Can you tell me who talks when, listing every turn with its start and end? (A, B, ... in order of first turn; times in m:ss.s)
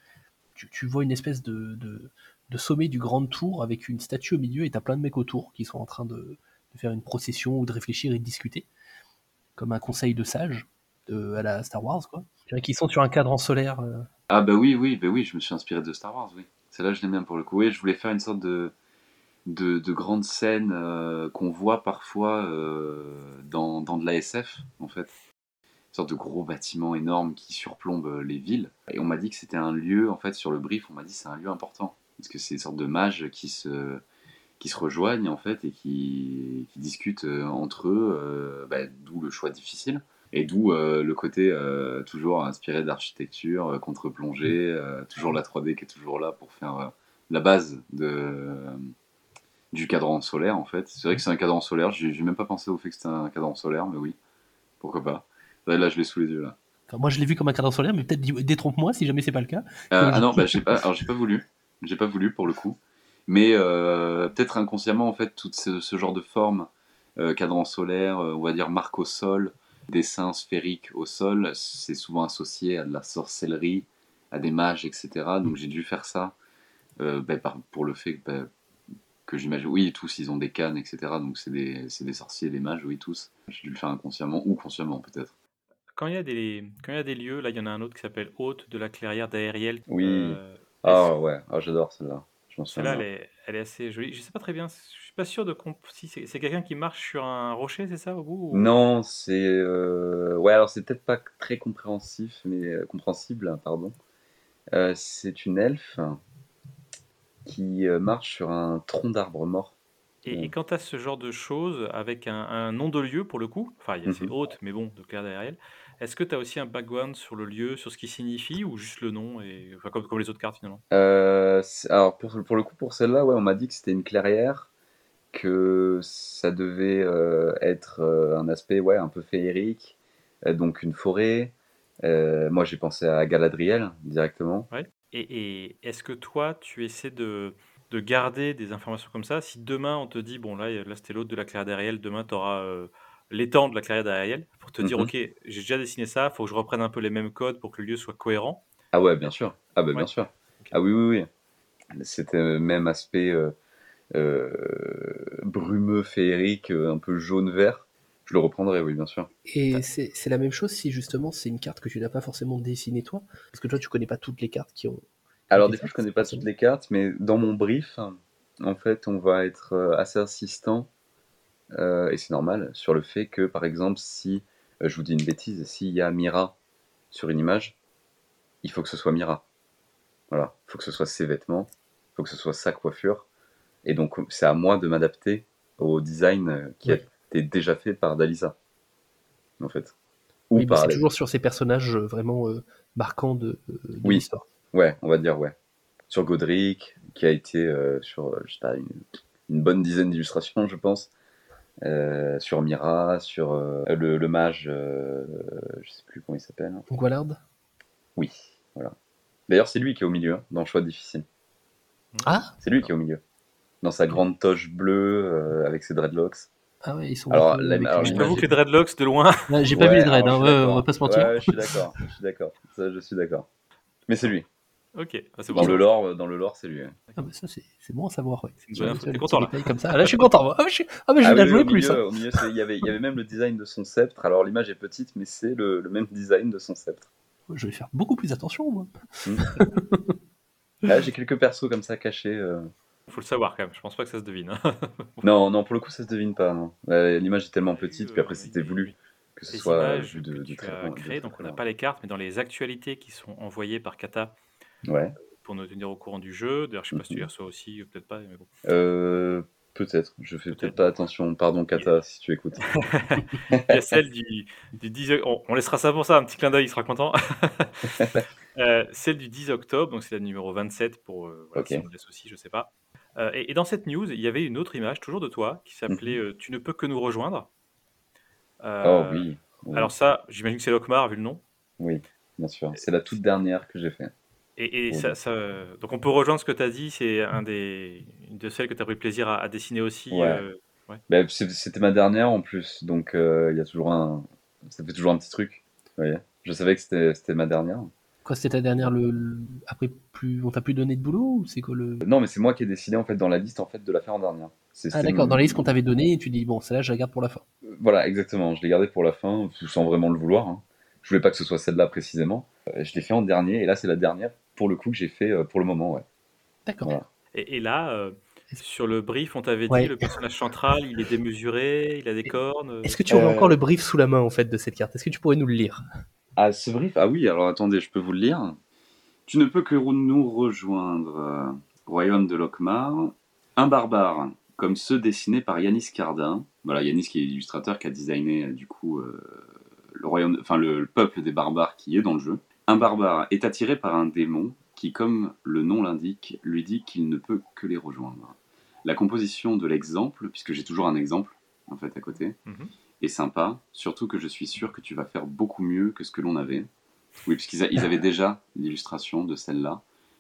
0:00.6-0:08.7 A
0:09.6-0:14.1 A
0:14.3-0:18.7 B
0:19.5-0:25.1 B
0:25.9-0:34.0 B
0:34.6-0:48.8 B
0:49.7-0:54.1 B
0:54.8-0:56.6 B
0:56.9-1:00.8 A
0:59.9-1:16.4 B
1:17.0-1:18.5 B
1:19.3-1:25.3 B
1:26.0-1:31.1 C
1:29.9-1:33.0 B
1:32.7-1:38.7 C
1:38.5-1:44.0 B
1:44.7-1:46.2 B
1:47.4-1:49.8 B
1:50.2-2:00.8 C
1:54.1-1:54.3 B
2:00.9-2:04.7 B
2:05.3-2:14.7 B
2:14.7-2:28.6 C
2:24.8-2:25.1 B
2:28.9-2:31.3 B
2:31.9-2:33.5 B
2:34.1-2:39.3 B
2:39.4-2:46.4 A
2:45.5-2:50.9 B
2:51.7-2:56.6 B
2:57.1-2:57.7 B
2:58.6-2:59.4 B
3:00.3-3:03.3 B
3:03.8-3:08.6 B
3:09.6-3:09.9 B
3:10.5-3:11.0 B
3:10.6-3:14.5 A
3:14.0-3:15.6 B
3:16.1-3:21.1 B
3:21.8-3:26.9 B
3:26.9-3:27.4 A
3:28.2-3:28.9 B
3:29.5-3:31.2 B
3:32.1-3:32.9 C
3:32.2-3:32.5 A
3:32.6-3:33.2 B
3:33.8-3:36.5 B
3:36.8-3:38.5 A
3:37.3-3:38.5 B
3:38.0-3:39.5 C
3:39.5-3:41.8 A
3:39.7-3:43.5 B
3:44.1-3:44.5 B
3:45.0-3:45.8 C
3:45.5-3:46.9 B
3:47.2-3:52.4 A
3:48.6-3:50.3 C
3:51.2-3:57.1 B
3:57.5-4:00.1 A
4:00.8-4:02.7 B
4:03.1-4:05.2 C
4:05.2-4:11.6 B
4:07.7-4:09.0 C
4:09.5-4:14.4 C
4:14.8-4:15.2 B
4:15.4-4:18.5 C
4:16.9-4:17.2 B
4:18.6-4:22.7 B
4:20.5-4:21.0 C
4:22.7-4:37.5 C
4:23.5-4:23.9 B
4:31.6-4:31.8 B
4:35.9-4:36.2 B
4:38.6-4:41.4 C
4:38.8-4:39.9 B
4:41.8-4:44.1 B
4:44.6-4:51.0 C
4:44.9-4:45.2 B
4:50.1-4:50.4 B
4:51.1-4:57.9 B
4:58.2-5:02.0 A
5:02.0-5:05.7 B
5:04.9-5:07.4 A
5:07.7-5:16.0 B
5:16.6-5:16.9 A
5:17.3-5:23.0 C
5:19.7-5:20.1 A
5:22.8-5:25.8 A
5:23.1-5:23.6 B
5:26.4-5:28.6 B
5:29.3-5:52.4 B
5:52.5-5:52.7 C
5:53.0-5:56.7 B
5:57.2-5:59.8 B